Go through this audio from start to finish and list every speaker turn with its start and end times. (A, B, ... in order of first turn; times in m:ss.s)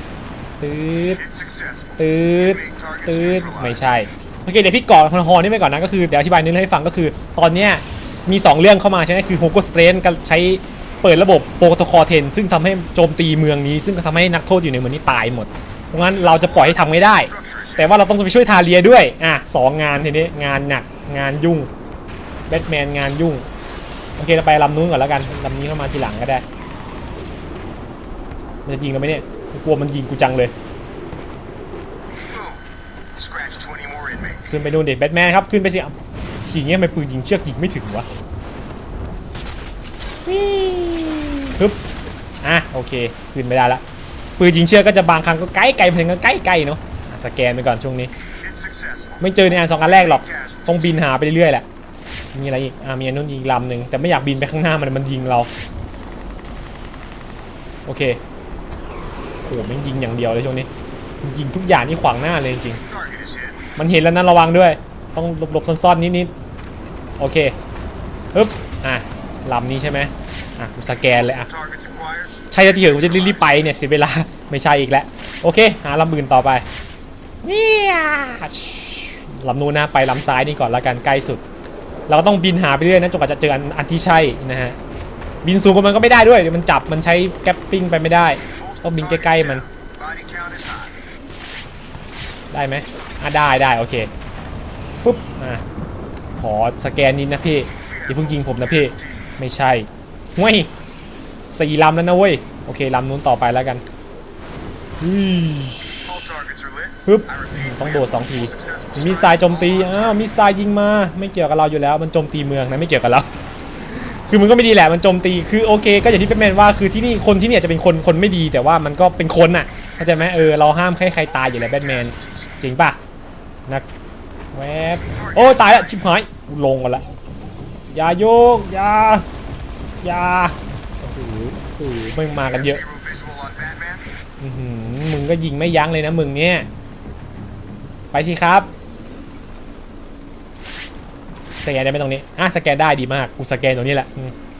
0:00.6-0:01.2 A
0:01.1-0:03.8 B
0:02.0-0:21.7 A
0:16.6-0:17.9 B
0:22.5-0:23.4 A
0:24.2-0:26.4 A
0:28.6-0:30.5 A
0:32.1-0:32.6 B
0:33.1-0:34.6 B
0:34.5-0:35.9 A
0:36.4-0:38.1 A
0:40.2-0:41.8 A
0:42.4-0:43.8 A
0:44.4-0:48.1 A
0:48.4-0:51.0 B
0:49.2-0:51.6 A
0:52.3-0:55.5 A
0:57.8-0:58.2 A
0:59.4-1:00.7 A
1:01.2-1:02.8 A
1:02.8-1:03.6 B
1:03.8-1:06.3 A
1:07.2-1:07.6 A
1:08.3-1:11.5 A
1:11.1-1:13.5 B
1:12.5-1:16.6 A
1:17.4-1:21.4 A
1:22.1-1:24.8 A
1:25.4-1:29.6 A
1:28.5-1:30.9 B
1:32.5-1:34.1 A
1:34.9-1:35.6 A
1:36.4-1:40.7 A
1:37.8-1:39.3 B
1:41.5-1:43.8 A
1:45.0-1:46.1 A
1:46.0-1:50.2 B
1:47.0-1:53.3 A
1:53.9-2:03.0 A
2:00.1-2:02.5 B
2:04.5-2:07.0 A
2:05.1-2:05.8 B
2:07.9-2:09.2 A
2:10.0-2:12.8 A
2:12.3-2:14.0 B
2:14.4-2:16.7 A
2:18.1-2:18.7 A
2:21.6-2:24.3 A